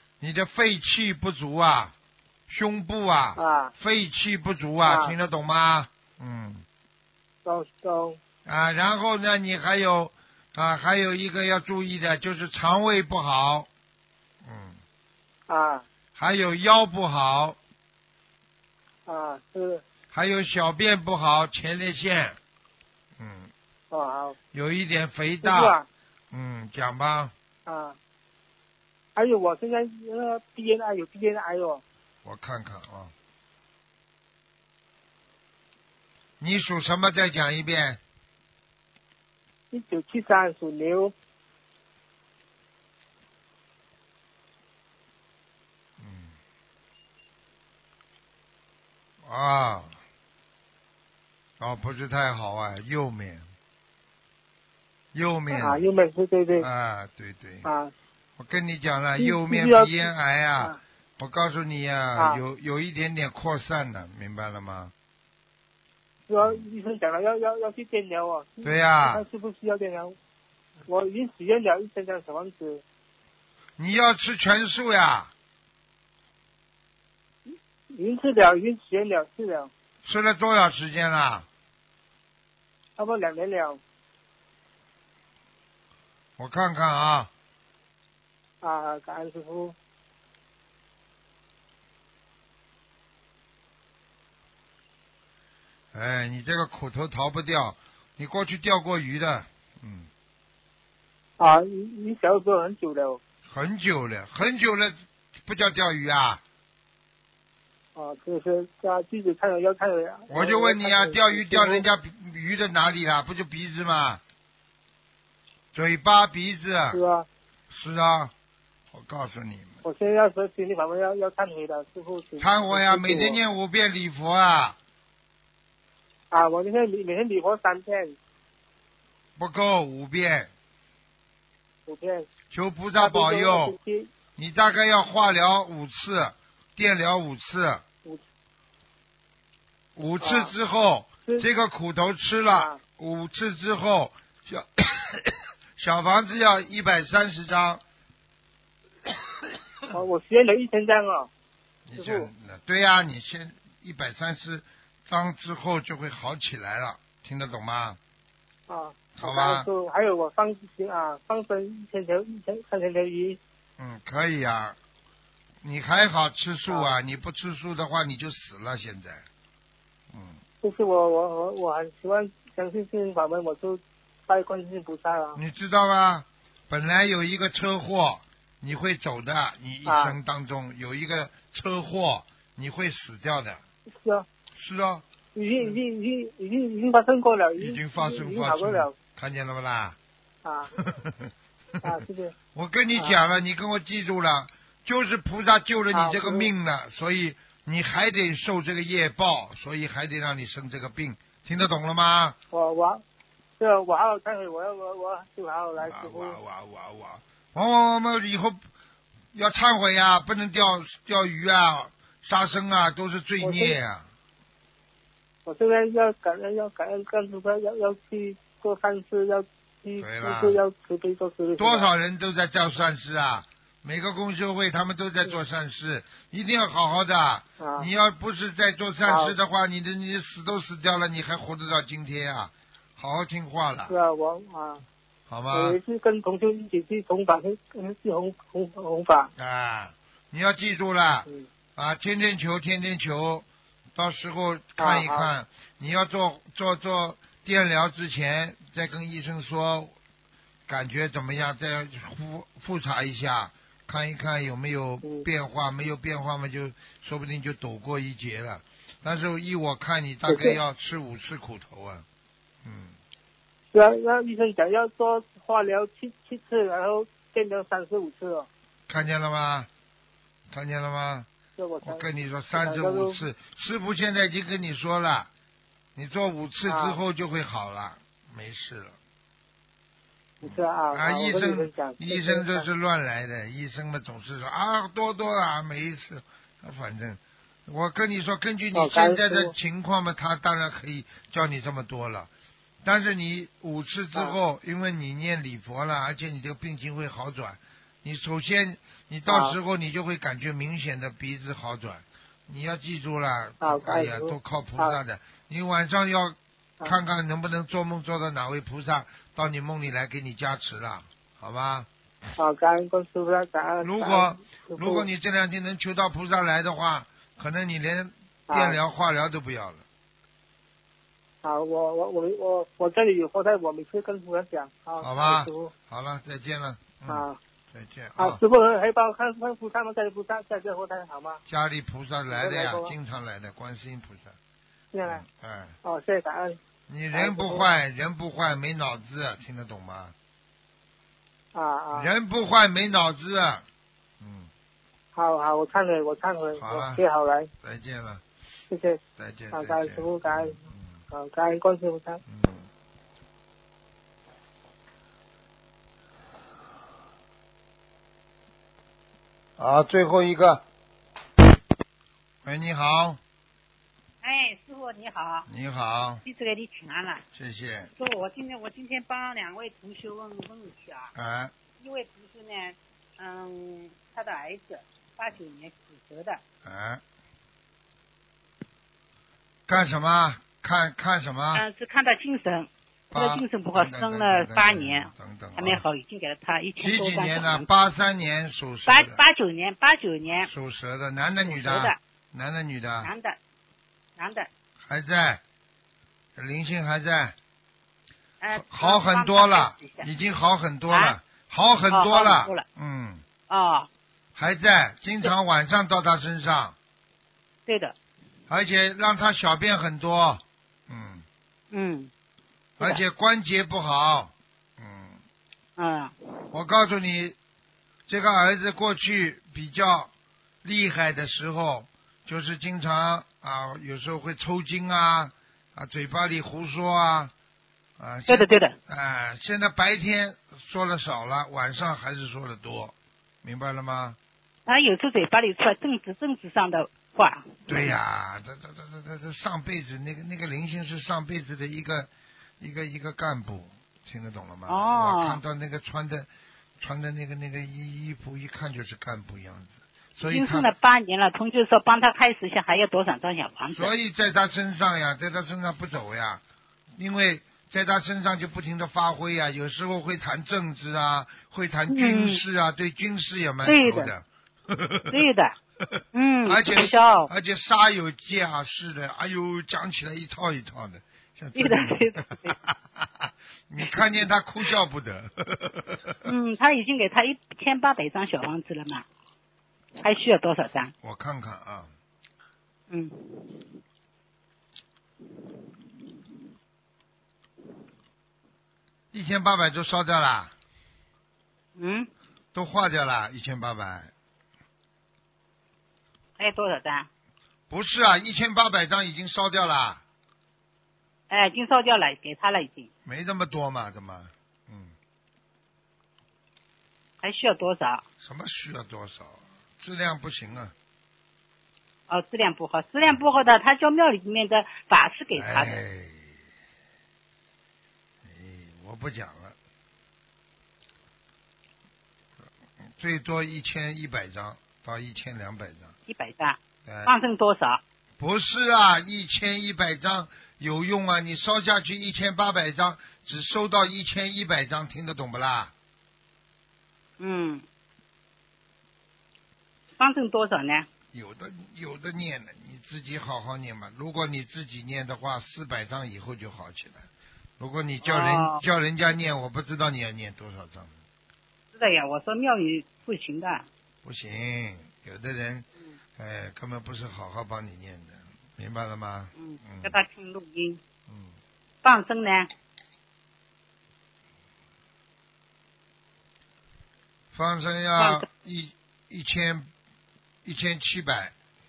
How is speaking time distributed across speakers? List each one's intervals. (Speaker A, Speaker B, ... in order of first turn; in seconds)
Speaker A: 0.2-1.9, 2.5-6.7, 8.4-13.7, 14.4-14.8, 16.1-17.6, 20.1-22.4, 23.2-23.5, 24.5-25.8, 26.3-27.3, 32.2-33.1, 36.4-38.0, 46.0-46.4, 49.2-50.0, 51.6-53.5, 55.1-55.9, 56.5-57.7, 58.4-64.9, 68.6-69.2, 73.8-75.3, 80.0-81.5, 86.4-87.3, 95.9-100.1, 103.5-106.4, 110.3-114.2, 115.7-117.0, 117.7-118.3, 118.9-119.8, 122.4-124.8, 129.4-130.5, 132.5-133.8, 134.4-137.8, 140.0-147.8, 151.9-158.0, 159.2-159.7, 163.8-164.8, 165.6-169.2, 170.1-170.4, 175.4-183.6, 184.5-185.1, 187.6-190.0, 190.8-191.3, 192.5-202.4, 205.8-208.6, 209.3-214.1, 220.0-220.6, 221.6-234.0, 235.3-235.8, 239.4-249.9, 250.7-262.1, 262.6-263.0, 268.9-269.7, 270.5-271.3, 271.8-275.3, 275.9-279.0, 280.4-292.3, 292.8-311.9, 313.8-319.9, 325.0-328.4, 331.5-334.4, 335.1-335.8, 336.9-340.1, 341.9-343.6, 344.2-344.5, 346.6-347.0, 347.6-348.2, 349.2-351.0, 352.3-352.7, 359.6-360.6, 362.4-363.2, 365.5-366.2, 367.3-367.9, 371.1-371.5, 376.6-377.0, 379.7-381.6, 383.1-385.9, 386.8-389.2, 390.4-393.1, 394.8-395.4, 396.4-397.4, 398.6-403.2, 404.4-406.8, 408.5-411.3, 412.8-415.2, 416.5-417.4, 418.1-420.1, 420.6-427.3, 428.0-434.2, 437.7-446.3, 446.8-450.7, 453.7-456.4, 457.0-465.2, 465.9-476.2, 481.0-481.9, 489.1-490.5, 492.5-494.1, 497.7-500.0, 503.1-505.0, 508.2-510.7, 515.4-516.4, 518.2-519.5, 522.9-526.0, 526.9-527.1, 528.2-535.7, 541.1-547.1, 547.6-550.9, 554.0-560.0, 561.1-561.4, 567.3-569.7, 570.5-571.3
Speaker B: 3.4-3.7, 4.8-5.2, 7.5-8.2, 15.5-15.8, 19.1-19.8, 23.9-24.4, 25.4-25.9, 27.7-28.0, 29.1-31.8, 39.7-41.1, 55.5-56.7, 57.6-57.9, 59.2-60.0, 62.2-62.4, 66.3-70.2, 70.9-72.8, 77.9-79.7, 83.0-83.8, 88.6-89.8, 101.4-103.2, 108.0-111.8, 116.9-117.3, 119.8-123.4, 126.3-128.2, 131.9-132.3, 133.0-134.1, 140.2-140.5, 142.5-142.8, 149.9-151.3, 152.0-152.3, 158.7-163.4, 166.7-166.9, 170.6-175.4, 179.9-180.2, 184.0-184.3, 185.3-188.9, 190.4-190.7, 191.8-192.3, 195.9-196.5, 202.5-203.0, 203.6-206.4, 213.4-213.8, 215.5-221.9, 227.6-227.9, 229.1-229.3, 233.9-234.8, 235.5-239.3, 244.8-245.3, 260.3-260.6, 263.7-268.5, 271.6-273.2, 276.7-277.0, 280.4-282.7, 288.7-289.5, 299.3-299.6, 303.6-305.0, 312.4-315.1, 318.5-318.8, 321.4-325.7, 327.1-327.4, 328.2-331.4, 332.3-332.9, 334.9-335.2, 335.8-336.6, 337.1-337.7, 341.5-342.1, 345.1-347.5, 348.7-349.0, 349.5-350.6, 351.1-352.2
Speaker C: 364.2-365.5, 366.2-367.2, 368.0-371.1, 371.8-376.4, 381.5-387.7, 388.9-390.5, 391.4-392.0, 393.0-393.4, 394.2-394.5, 398.4-400.1, 400.9-401.2, 401.9-402.6, 403.5-403.9, 407.7-408.0, 411.7-412.1, 415.8-416.5, 428.3-428.8, 434.7-438.0, 444.7-445.4, 450.2-453.9, 461.9-462.4, 463.6-464.1, 465.1-465.6, 466.1-467.3, 471.6-472.6, 476.2-479.1, 480.0-480.9, 482.9-483.6, 491.8-492.1, 496.4-497.1, 501.3-502.9, 507.2-508.1, 512.1-515.8, 526.1-527.8, 537.2-537.6, 540.0-540.9, 548.0-548.6, 551.7-553.7, 559.4-560.8, 561.8-562.5, 568.0-568.3